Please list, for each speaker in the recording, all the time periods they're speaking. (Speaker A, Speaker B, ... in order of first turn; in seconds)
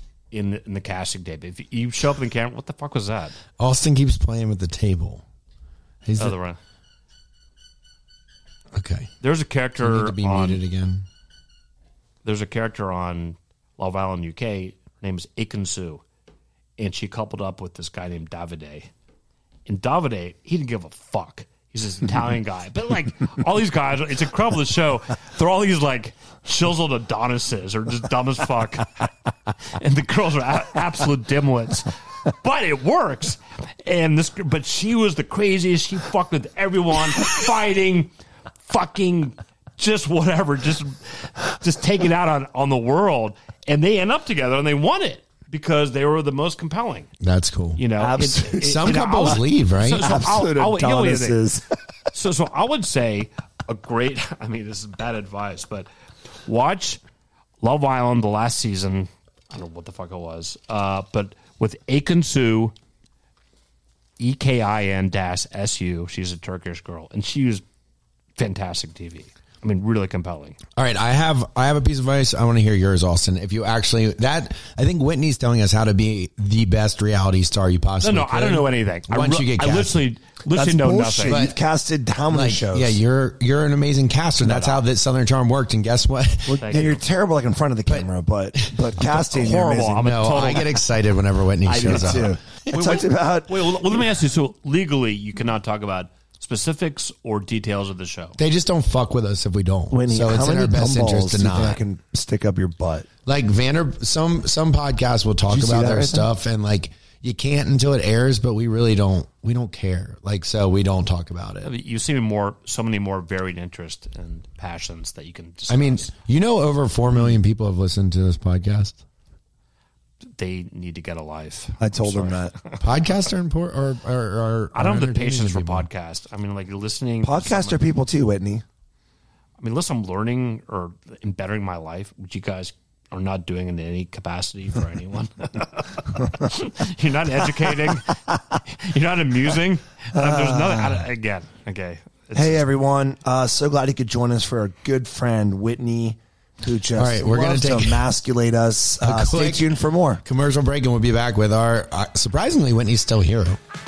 Speaker A: 0.3-3.4, 6.2-6.6, 9.2-10.6, 12.2-16.0, 16.8-18.9, 19.6-29.1, 29.7-38.1, 38.6-47.1, 47.8-51.4, 52.1-55.9, 56.5-57.0, 57.6-62.7, 64.2-67.6, 68.4-70.6, 78.0-81.4, 84.4-84.8, 86.6-87.0, 89.3-90.8, 91.7-98.4, 111.6-116.1, 120.4-122.8, 124.7-127.8, 129.6-142.7
Speaker B: 3.6-5.2, 6.0-6.3, 8.7-9.1, 9.8-11.1, 47.2-47.8, 48.5-50.1, 70.8-80.0, 81.2-81.6, 82.3-86.8, 87.9-92.4, 98.4-101.8, 103.2-111.7, 115.7-119.0, 122.8-125.9, 146.9-148.1, 149.0-153.6
Speaker C: 48.0-49.4, 49.9-51.6, 80.5-83.0, 86.5-90.1, 91.7-93.7, 99.9-103.1, 105.5-106.3, 121.8-122.5, 127.2-128.6, 140.1-141.1, 142.3-150.2